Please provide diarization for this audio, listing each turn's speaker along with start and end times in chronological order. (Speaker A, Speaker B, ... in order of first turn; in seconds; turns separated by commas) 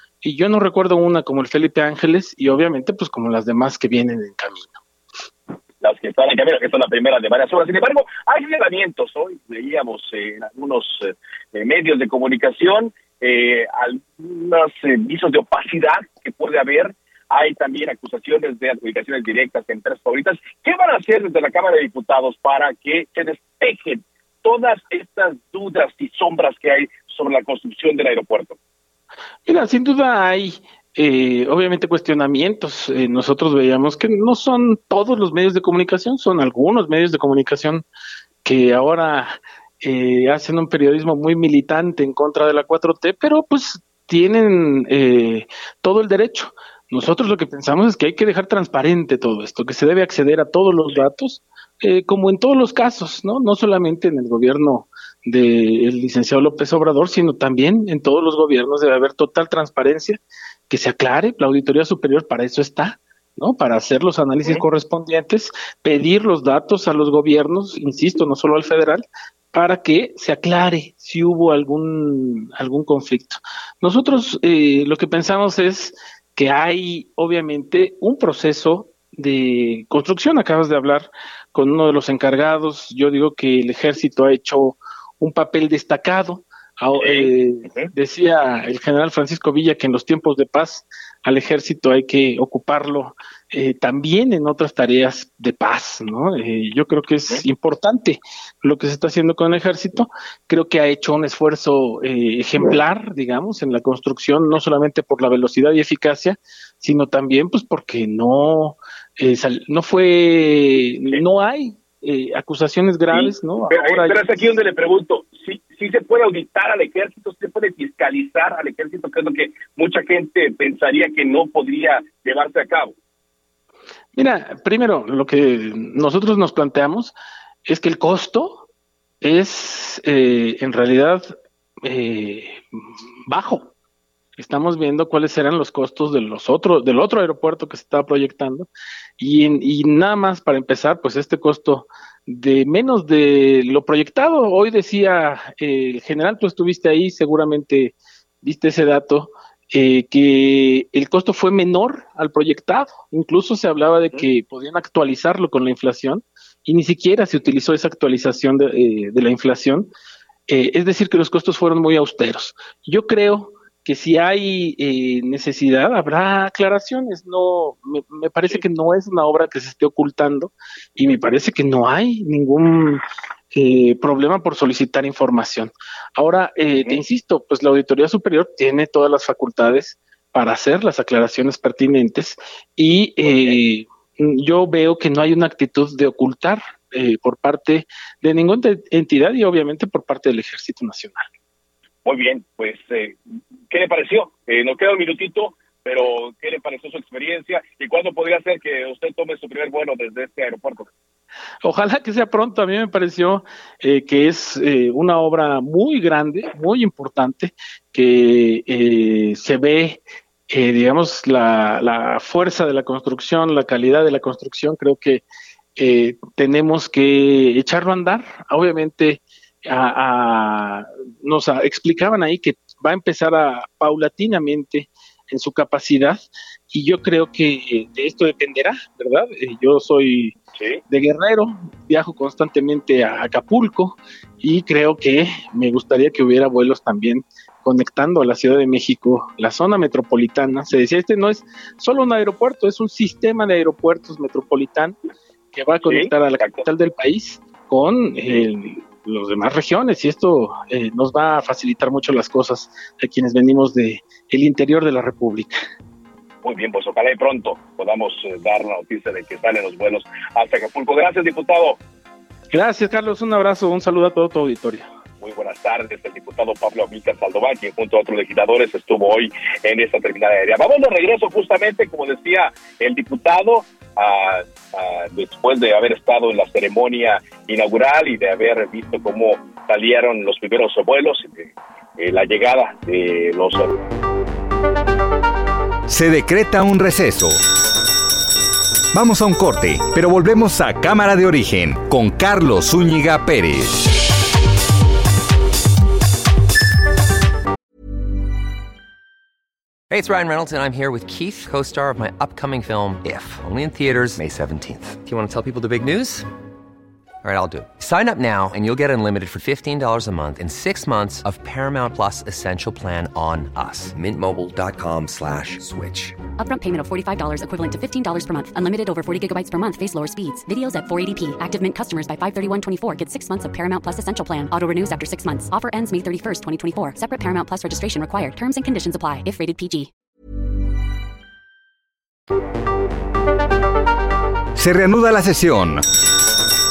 Speaker A: 0.2-4.8, Speaker B: 5.8-28.6, Speaker A: 29.4-37.8, Speaker A: 38.4-114.3, Speaker B: 86.9-87.9, Speaker B: 113.1-122.9, Speaker A: 124.1-127.1, Speaker A: 127.7-128.6, Speaker A: 129.2-132.6, Speaker A: 133.3-133.7, Speaker A: 134.4-138.7, Speaker A: 139.2-159.9, Speaker A: 160.5-191.2, Speaker B: 183.2-183.6, Speaker B: 192.0-193.2, Speaker B: 193.7-200.9, Speaker A: 201.6-215.2, Speaker A: 215.8-230.3, Speaker B: 230.5-230.8, Speaker A: 230.9-245.0, Speaker A: 245.5-255.6, Speaker B: 245.8-246.7, Speaker B: 256.4-261.8, Speaker A: 262.5-264.9, Speaker B: 265.2-283.8, Speaker C: 285.9-287.4, Speaker C: 288.9-293.9, Speaker D: 299.9-306.3, Speaker D: 307.2-316.2, Speaker E: 316.4-329.9, Speaker C: 334.6-335.8